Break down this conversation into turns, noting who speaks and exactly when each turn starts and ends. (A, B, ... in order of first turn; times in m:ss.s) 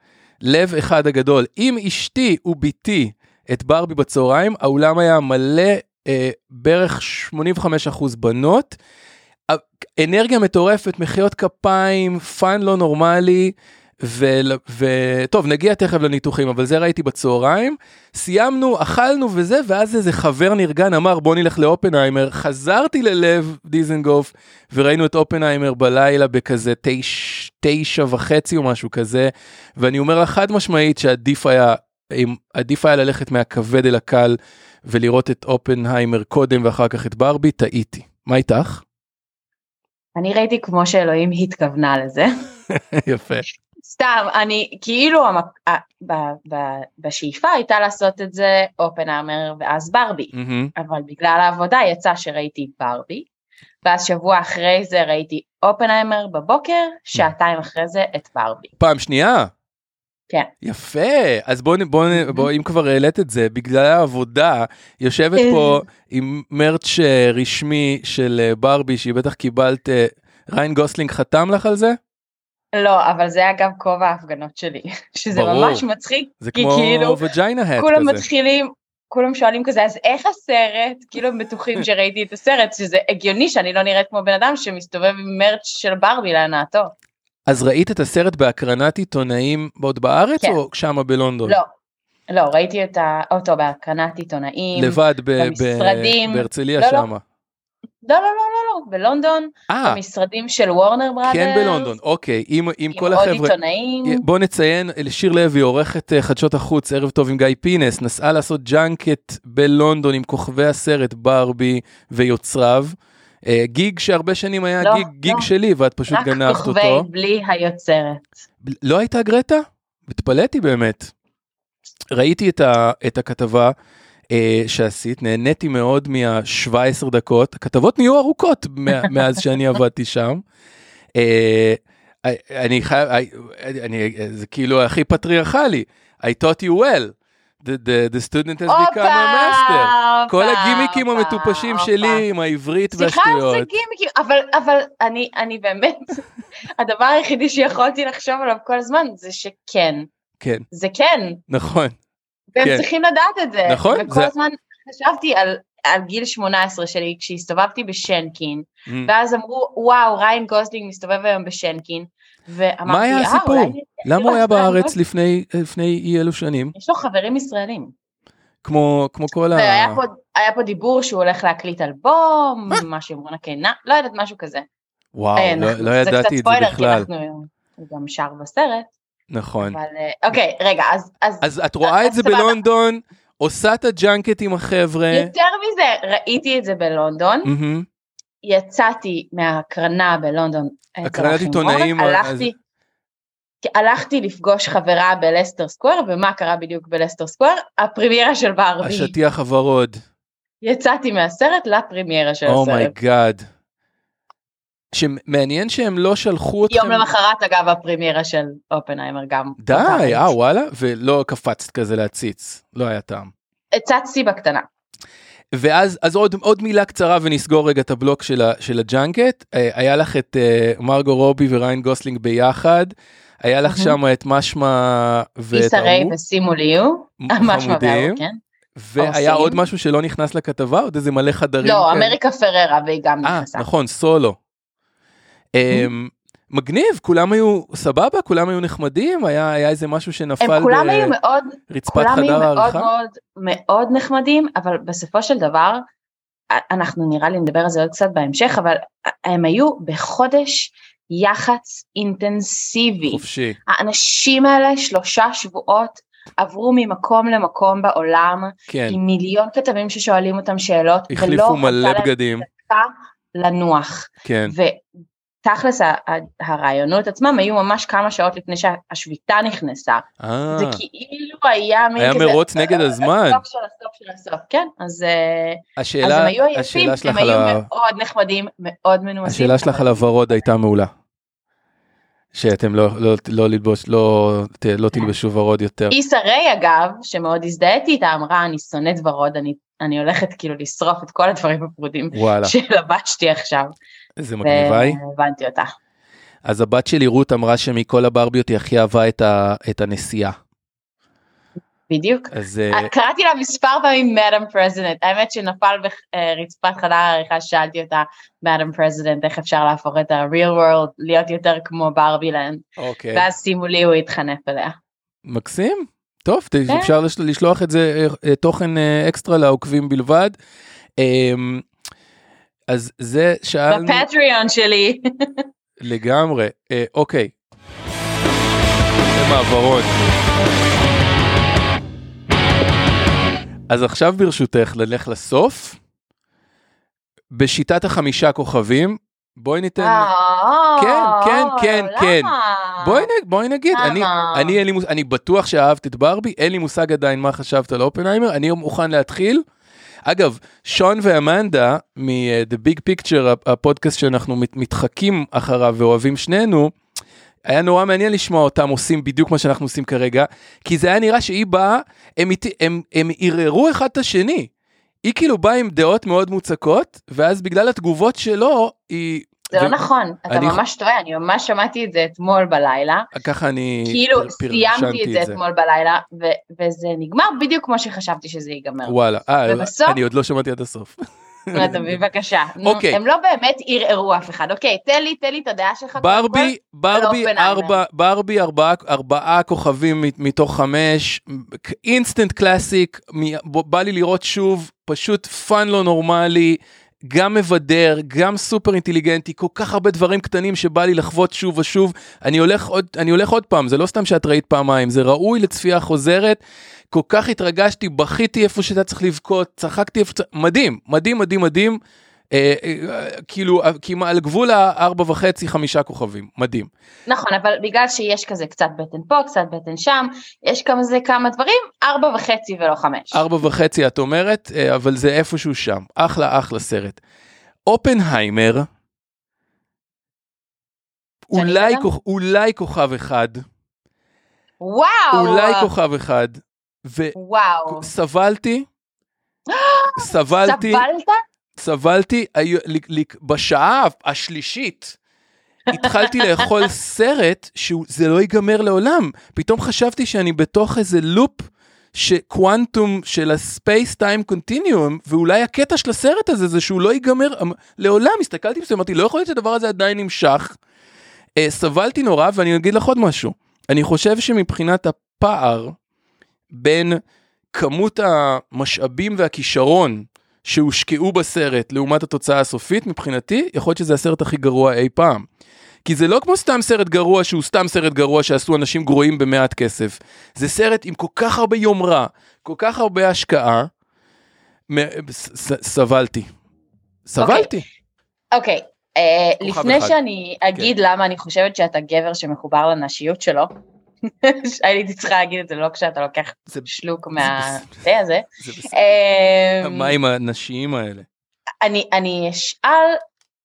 0:00.4-0:08.8 A
0:09.5-0:38.8 A
0:40.2-0:42.4 B
0:42.7-0:43.4 A
0:43.8-0:53.2 B
0:50.3-0:50.7 A
0:53.8-0:58.7 B
0:58.8-0:59.5 A
1:00.6-1:12.0 A
1:02.1-1:02.5 B
1:05.4-1:05.8 B
1:12.7-1:17.2 B
1:15.3-1:15.8 A
1:16.4-1:18.2 A
1:17.8-1:26.9 B
1:27.4-1:31.6 A
1:32.3-1:37.1 B
1:34.8-1:37.2 A
1:38.0-1:41.9 B
1:39.7-1:40.0 A
1:41.2-1:57.1 A
1:42.9-1:44.2 B
1:54.8-1:55.5 B
1:56.1-1:58.2 B
1:58.6-2:01.1 A
2:02.1-2:03.7 A
2:04.3-2:10.4 A
2:11.1-2:23.7 A
2:18.7-2:22.2 B
2:22.9-2:26.2 B
2:26.8-2:30.1 B
2:30.4-2:30.6 A
2:30.7-2:31.4 B
2:31.5-2:32.0 A
2:32.6-2:44.9 B
2:32.6-2:32.8 A
2:33.6-2:34.3 A
2:42.9-2:46.8 A
2:46.8-2:47.9 B
2:48.6-2:50.0 A
2:49.5-2:54.6 B
2:55.1-2:57.1 A
2:55.4-2:58.9 B
2:59.3-2:59.8 A
2:59.6-3:02.6 B
3:01.4-3:05.3 A
3:05.1-3:07.5 B
3:07.4-3:07.9 A
3:08.4-3:12.5 B
3:11.0-3:12.5 A
3:13.6-3:19.1 B
3:18.8-3:20.0 A
3:20.6-3:22.9 B
3:22.4-3:23.4 A
3:24.9-3:27.1 A
3:26.7-3:30.3 B
3:29.6-3:33.3 A
3:33.7-3:34.6 B
3:35.5-3:46.1 A
3:43.6-3:44.0 B
3:45.5-3:48.4 B
3:47.2-3:48.2 A
3:48.8-3:52.2 A
3:49.0-3:49.6 B
3:51.6-3:53.7 B
3:53.2-3:54.4 A
3:55.5-4:01.2 A
4:00.4-4:05.8 B
4:01.7-4:02.9 A
4:06.5-4:24.8 B
4:13.1-4:13.6 A
4:18.7-4:19.0 A
4:21.1-4:22.5 A
4:24.2-4:24.5 A
4:25.4-4:40.4 B
4:30.2-4:30.8 A
4:32.0-4:33.4 A
4:35.8-4:37.7 A
4:39.2-4:40.9 A
4:42.3-4:45.9 A
4:45.9-4:53.8 B
4:52.1-4:52.6 A
4:54.2-4:55.0 A
4:54.4-4:55.7 B
4:56.4-5:00.4 A
5:01.9-5:14.8 B
5:02.3-5:02.9 A
5:12.8-5:13.2 A
5:15.2-5:20.4 A
5:16.7-5:16.9 B
5:21.0-5:21.6 A
5:22.7-5:24.0 A
5:23.7-5:25.0 B
5:25.8-5:27.3 A
5:29.1-5:29.9 A
5:33.7-5:35.8 A
5:37.3-5:40.1 A
5:39.8-5:43.1 B
5:40.8-5:49.4 A
5:43.7-5:44.6 B
5:50.0-5:56.7 A
5:57.5-6:04.5 A
6:05.0-6:09.8 A
6:09.5-6:13.1 B
6:10.3-6:10.6 A
6:13.1-6:15.4 A
6:13.8-6:20.0 B
6:18.8-6:22.0 A
6:21.5-6:27.8 B
6:22.6-6:23.0 A
6:26.0-6:46.4 A
6:46.9-6:51.8 A
6:52.3-6:56.7 A
6:57.1-7:03.2 B
7:03.1-7:07.0 A
7:07.6-7:08.7 A
7:11.3-7:13.4 A
7:11.3-7:11.9 B
7:14.6-7:15.7 B
7:15.1-7:17.2 A
7:17.1-7:17.9 B
7:17.7-7:18.7 A
7:19.5-7:21.2 B
7:20.0-7:20.8 A
7:21.6-7:25.0 A
7:25.7-7:26.5 B
7:25.7-7:40.6 A
7:41.4-7:45.8 A
7:46.5-7:47.0 A
7:47.5-7:55.2 A
7:55.8-8:03.7 A
8:04.7-8:06.3 A
8:07.0-8:07.6 A
8:07.2-8:07.5 B
8:08.3-8:13.5 B
8:09.4-8:10.0 A
8:14.2-8:20.0 B
8:16.5-8:17.8 A
8:18.4-8:18.8 A
8:19.6-8:21.1 A
8:21.6-8:23.0 B